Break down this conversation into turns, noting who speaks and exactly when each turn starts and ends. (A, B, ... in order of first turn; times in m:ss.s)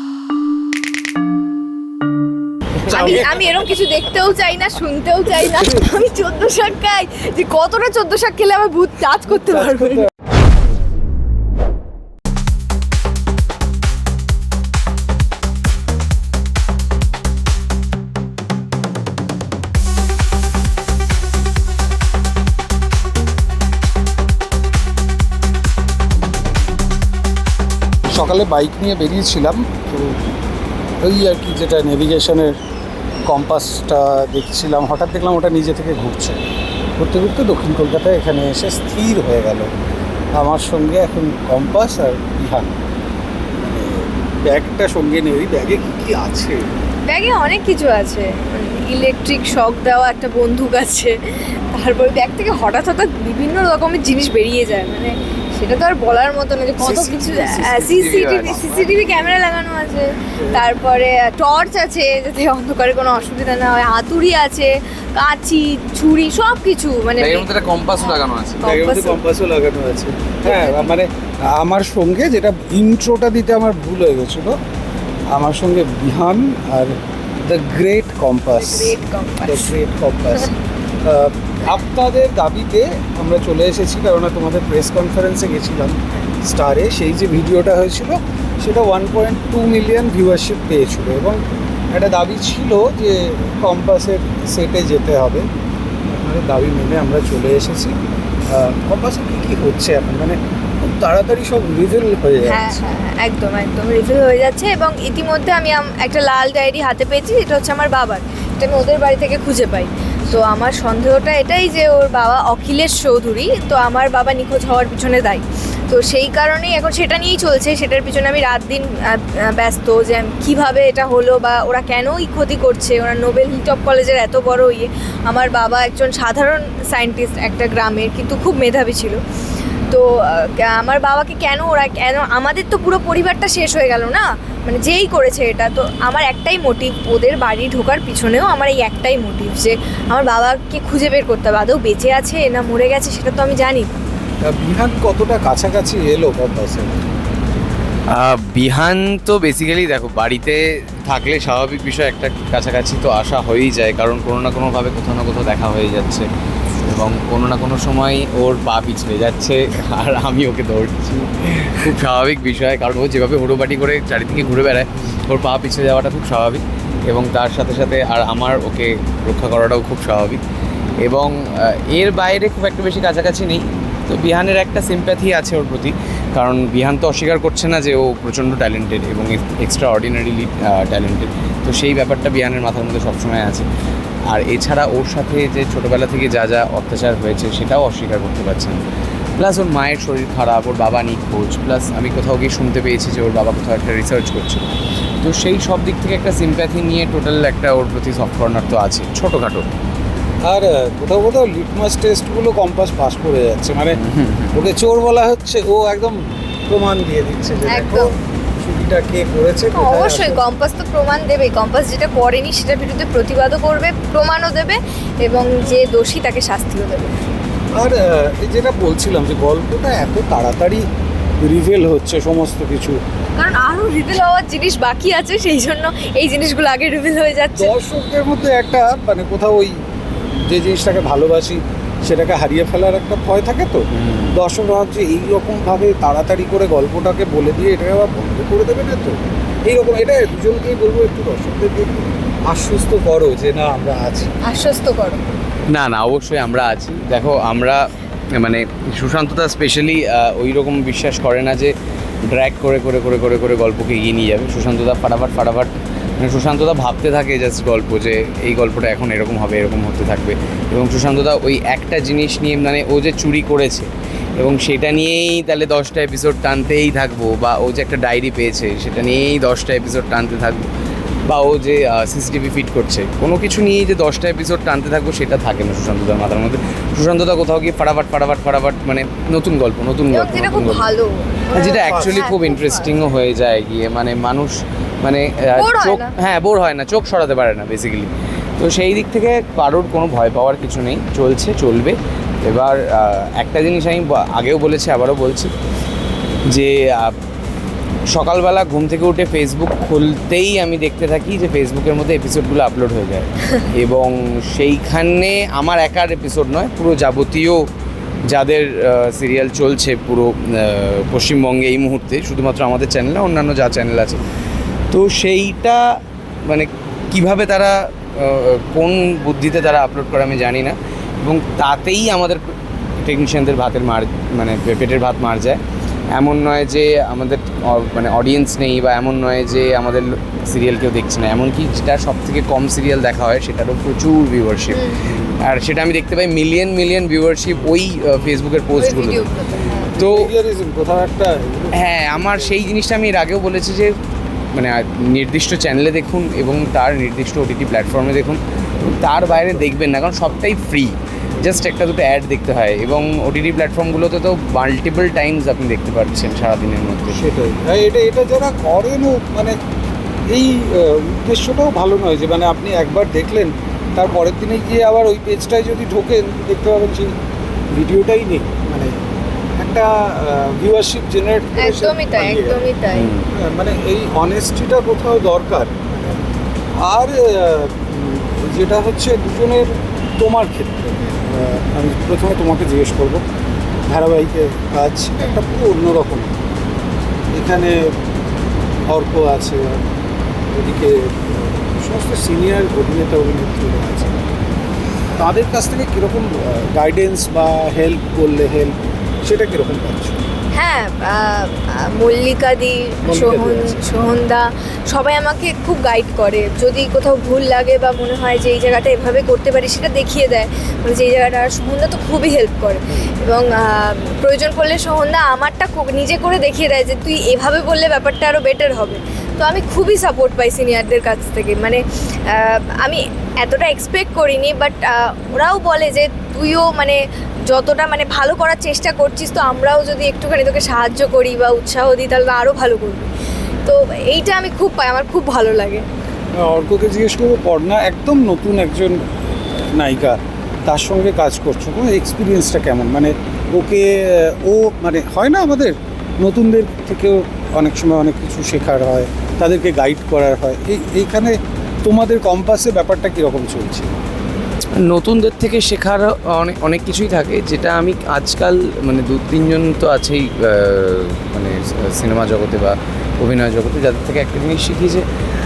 0:02.9-0:03.4 A
0:02.9-0:10.1 B
0:05.6-0:05.9 A
0:09.4-0:10.1 A
0:28.1-0:30.2 A
0:31.0-0:32.6 A
0:33.3-0:36.4 A
0:37.0-0:39.7 A
0:40.4-0:42.8 A
0:43.6-0:46.6 A
0:47.1-1:09.2 B
0:56.8-0:59.4 A
0:57.2-0:58.7 C
1:00.4-1:00.7 A
1:07.2-1:08.7 C
1:08.6-1:14.6 A
1:10.4-1:10.9 B
1:15.3-1:35.5 A
1:18.5-1:19.7 B
1:36.0-1:37.9 A
1:38.5-1:42.8 A
1:42.4-2:09.2 B
2:09.9-2:24.0 B
2:24.4-2:27.0 A
2:28.1-2:36.3 C
2:36.8-2:50.4 C
2:51.0-3:03.7 C
3:04.3-3:08.8 C
3:09.4-3:14.7 C
3:15.2-3:19.7 C
3:20.5-3:24.0 A
3:24.0-3:24.6 C
3:24.5-3:30.5 A
3:27.7-3:28.1 B
3:29.7-3:37.2 B
3:37.8-3:40.9 A
3:41.4-3:43.0 A
3:43.4-3:47.7 B
3:47.6-3:49.8 A
3:50.4-4:04.3 A
3:53.9-3:54.3 C
4:04.4-4:05.3 B
4:05.7-4:11.8 C
4:12.3-4:30.7 C
4:31.3-4:40.9 C
4:40.1-4:42.8 B
4:41.5-4:55.5 C
4:41.7-4:42.1 A
4:45.6-4:46.1 B
4:56.4-4:57.2 C
4:58.1-5:07.6 C
5:08.3-5:14.2 C
5:14.9-5:25.6 C
5:26.1-5:39.3 C
5:34.7-5:35.0 B
5:35.1-5:35.3 A
5:38.8-5:39.9 B
5:39.5-5:42.6 A
5:40.0-5:40.3 C
5:41.7-5:44.0 C
5:44.5-5:57.3 C
5:49.3-5:49.7 A
5:57.2-5:59.6 A
6:00.3-6:07.2 A
6:07.7-6:09.0 A
6:09.6-6:12.7 A
6:11.6-6:13.1 B
6:12.9-6:13.3 C
6:13.3-6:16.2 A
6:16.8-6:23.2 A
6:23.9-6:26.4 A
6:27.3-6:27.9 A
6:28.9-6:29.8 A
6:30.5-6:34.3 A
6:35.2-6:40.2 A
6:40.5-7:13.1 B
6:43.0-6:43.8 A
7:13.6-7:15.8 B
7:16.3-7:33.9 A
7:34.8-7:45.1 C